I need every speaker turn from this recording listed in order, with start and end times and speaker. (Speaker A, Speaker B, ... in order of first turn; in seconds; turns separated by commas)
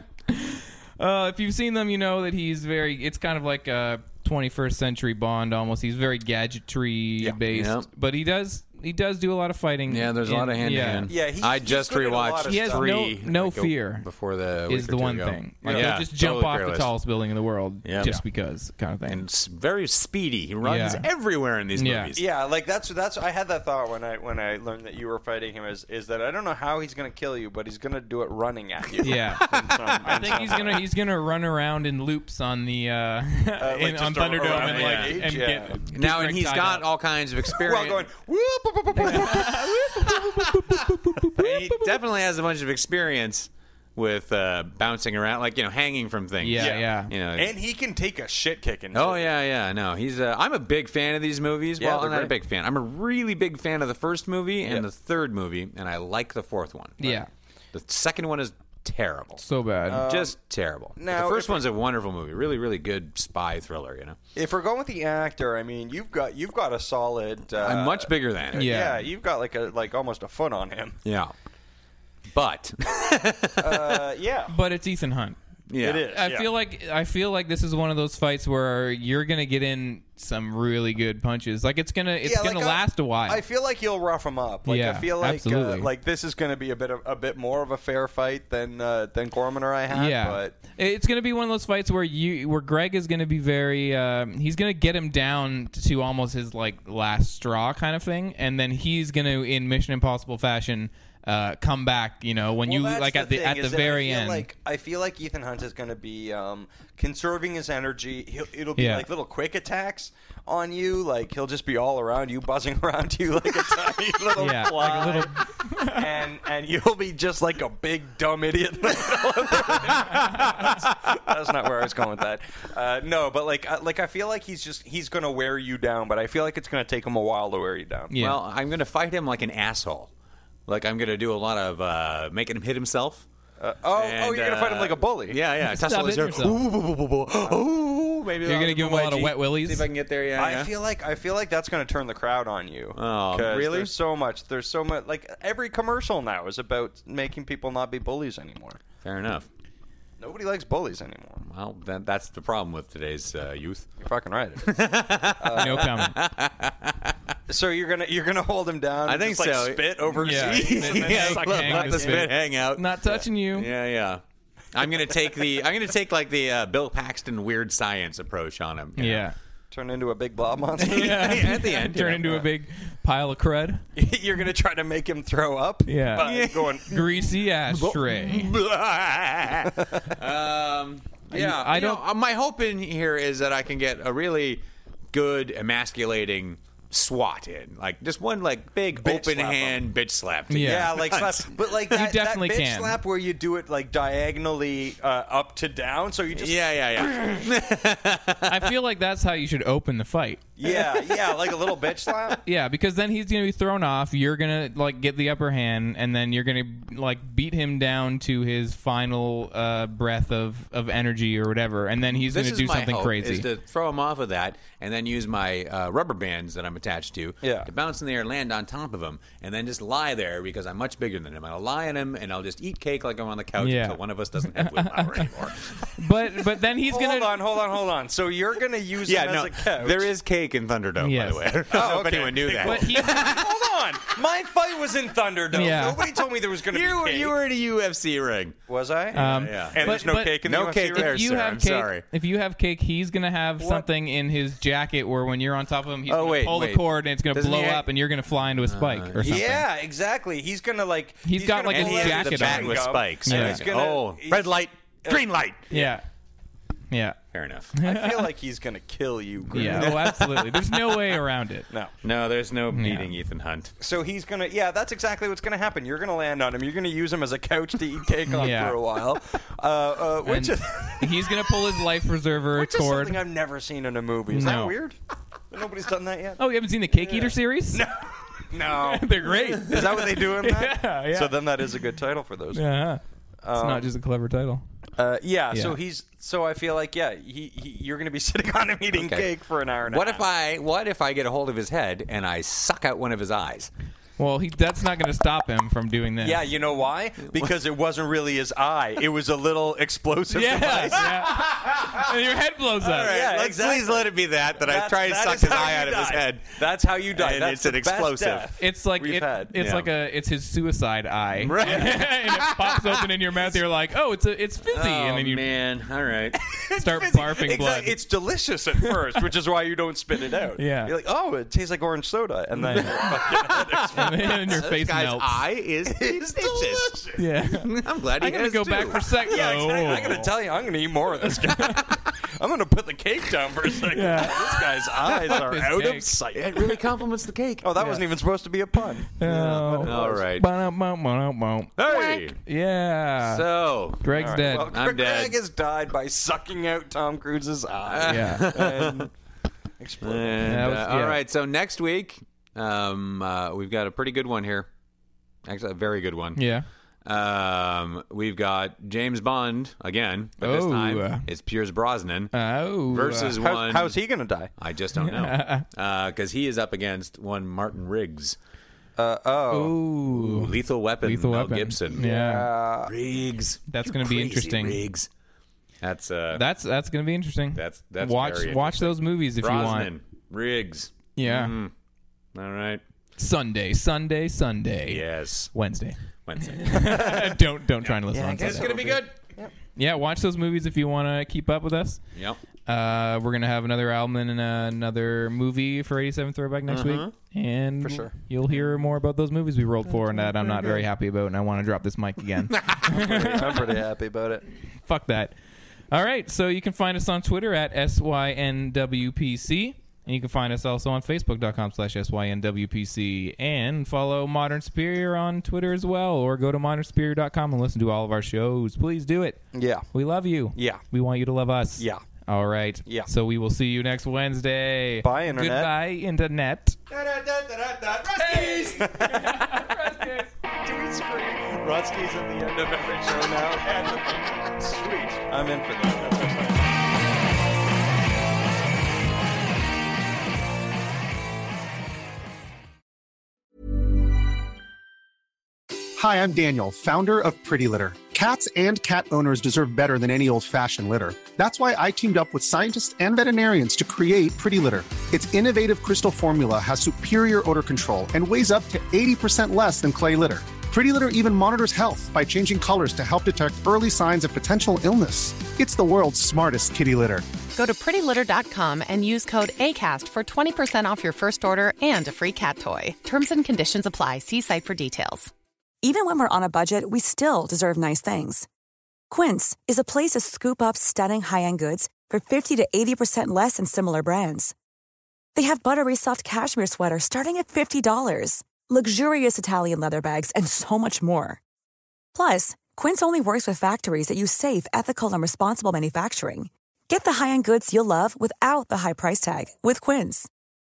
Speaker A: 0.3-11.1, Speaker B: 7.5-7.9, Speaker B: 9.9-16.9, Speaker C: 11.1-12.9, Speaker A: 12.5-14.1, Speaker A: 14.7-19.2, Speaker C: 15.7-15.9, Speaker B: 17.8-18.2, Speaker B: 19.1-22.3, Speaker A: 20.6-21.1, Speaker A: 21.8-22.1, Speaker C: 22.2-30.9, Speaker A: 29.0-36.9, Speaker B: 29.1-30.5, Speaker C: 33.6-35.8, Speaker B: 34.4-35.3, Speaker B: 35.9-38.1, Speaker C: 37.5-39.7, Speaker A: 39.0-42.0, Speaker B: 39.0-47.5, Speaker A: 46.4-47.1, Speaker C: 46.6-49.3, Speaker B: 48.9-57.2, Speaker C: 51.8-52.3, Speaker A: 57.0-57.3, Speaker B: 57.7-59.4, Speaker A: 59.4-60.0, Speaker C: 59.9-60.4, Speaker B: 60.0-64.2, Speaker C: 61.0-61.6, Speaker C: 64.3-71.0, Speaker B: 67.6-68.7, Speaker A: 68.5-69.0, Speaker B: 71.0-71.3, Speaker B: 72.3-74.1, Speaker C: 73.6-74.5, Speaker A: 74.5-75.4, Speaker B: 75.7-76.1, Speaker C: 75.8-76.5, Speaker A: 76.1-83.4, Speaker C: 82.2-90.5, Speaker A: 84.7-85.9, Speaker A: 89.9-104.5, Speaker C: 102.6-128.1, Speaker A: 108.8-109.1, Speaker A: 114.4-116.0, Speaker A: 120.1-120.6, Speaker A: 128.1-128.4, Speaker B: 128.2-130.1, Speaker B: 130.7-133.3, Speaker C: 133.6-135.4, Speaker B: 133.9-140.7, Speaker A: 135.6-136.6, Speaker A: 138.4-139.9, Speaker C: 140.3-148.8, Speaker B: 142.9-143.9, Speaker B: 149.0-149.5, Speaker C: 150.2-151.4, Speaker B: 151.4-153.9, Speaker C: 154.0-155.9, Speaker B: 154.6-157.2, Speaker A: 155.6-156.2, Speaker C: 157.5-162.3, Speaker B: 159.1-164.2, Speaker A: 160.2-163.7, Speaker B: 164.7-169.2, Speaker A: 169.0-169.3, Speaker C: 169.7-171.7, Speaker A: 170.8-173.8, Speaker B: 170.9-172.5, Speaker C: 174.0-177.1, Speaker A: 175.9-176.3, Speaker B: 176.2-177.1, Speaker A: 176.8-178.5, Speaker B: 177.7-191.5, Speaker A: 181.3-182.1, Speaker C: 189.0-189.9, Speaker A: 190.5-190.9, Speaker C: 190.6-197.1, Speaker A: 191.9-193.0, Speaker B: 196.3-198.7, Speaker A: 198.5-200.5, Speaker C: 200.6-202.4, Speaker A: 202.5-213.5, Speaker B: 212.1-226.1, Speaker C: 217.4-217.7, Speaker A: 223.6-225.3, Speaker A: 226.0-227.4, Speaker C: 226.9-230.1, Speaker B: 229.1-233.5, Speaker A: 231.0-231.6, Speaker C: 231.7-237.4, Speaker A: 232.6-233.2, Speaker A: 235.5-236.0, Speaker B: 236.7-238.6, Speaker C: 238.7-241.2, Speaker B: 239.1-242.1, Speaker A: 239.1-249.7, Speaker B: 246.1-247.9, Speaker B: 248.6-249.3, Speaker C: 249.2-255.9, Speaker A: 251.2-253.6, Speaker B: 251.7-255.7, Speaker A: 255.7-256.0, Speaker A: 256.9-257.2, Speaker B: 257.3-257.7, Speaker A: 257.7-258.3, Speaker C: 257.8-260.1, Speaker A: 259.5-261.7, Speaker B: 259.5-261.2, Speaker B: 262.0-263.7, Speaker A: 262.7-263.1, Speaker C: 263.8-271.6, Speaker A: 268.3-268.8, Speaker A: 270.2-273.2, Speaker C: 272.5-275.0, Speaker A: 274.3-274.8, Speaker C: 275.5-276.4, Speaker A: 276.4-277.9, Speaker C: 276.9-282.7, Speaker A: 278.7-281.5, Speaker A: 282.5-283.0, Speaker C: 283.4-283.9, Speaker A: 283.5-284.6, Speaker C: 285.0-290.3, Speaker A: 285.5-285.8, Speaker B: 288.9-289.3, Speaker B: 289.9-293.7, Speaker A: 294.2-296.4, Speaker C: 296.2-301.1, Speaker A: 300.3-303.2, Speaker B: 300.9-302.1, Speaker B: 302.8-308.5, Speaker C: 303.1-309.5, Speaker A: 308.6-315.4, Speaker B: 309.6-309.9, Speaker B: 311.4-313.1, Speaker C: 311.6-312.0, Speaker B: 314.7-316.4, Speaker C: 316.5-324.5, Speaker A: 316.8-318.0, Speaker A: 320.6-320.9, Speaker A: 322.6-323.0, Speaker B: 322.8-329.3, Speaker A: 323.9-325.4, Speaker C: 325.9-327.2, Speaker A: 327.2-330.3, Speaker C: 329.2-336.8, Speaker A: 331.2-331.9, Speaker A: 333.9-334.6, Speaker B: 335.1-337.7, Speaker A: 335.3-336.1, Speaker C: 337.6-340.2, Speaker A: 337.8-338.0, Speaker A: 339.2-343.4, Speaker B: 339.8-340.5, Speaker B: 341.8-342.4, Speaker B: 343.2-345.4, Speaker A: 344.0-344.7, Speaker C: 344.2-349.1, Speaker B: 347.9-349.1, Speaker A: 348.1-348.5, Speaker C: 349.8-350.6, Speaker B: 350.0-354.7, Speaker A: 350.5-351.2, Speaker B: 355.5-356.4, Speaker A: 356.4-356.7, Speaker B: 357.1-362.3, Speaker A: 360.4-361.3, Speaker A: 362.3-363.4, Speaker B: 362.9-364.0, Speaker C: 363.4-364.5, Speaker B: 364.6-368.4, Speaker A: 365.0-365.7, Speaker C: 369.0-369.8, Speaker A: 369.5-372.5, Speaker B: 370.1-372.1, Speaker C: 372.0-372.9, Speaker B: 372.9-375.1, Speaker A: 373.7-374.8, Speaker B: 375.8-376.4, Speaker A: 376.3-379.9, Speaker B: 377.6-381.7, Speaker A: 381.2-381.6, Speaker B: 382.3-382.8, Speaker A: 383.2-388.7, Speaker B: 384.9-385.5, Speaker B: 386.2-389.1, Speaker C: 388.1-389.5, Speaker A: 389.8-392.0, Speaker A: 392.7-403.6, Speaker B: 396.7-397.1, Speaker C: 397.8-398.1, Speaker B: 400.0-400.9, Speaker B: 402.4-402.9, Speaker C: 402.9-404.4, Speaker A: 404.9-405.4, Speaker A: 405.9-419.4, Speaker C: 419.5-419.9, Speaker A: 419.9-426.8, Speaker C: 420.6-420.8, Speaker C: 421.8-422.0, Speaker C: 425.0-425.7, Speaker C: 426.9-429.6, Speaker B: 427.3-428.7, Speaker A: 428.1-430.3, Speaker C: 430.6-436.7, Speaker D: 446.0-467.2, Speaker E: 467.5-475.3, Speaker F: 475.8-478.5, Speaker F: 479.1-484.5, Speaker F: 485.4-491.4, Speaker F: 492.1-500.3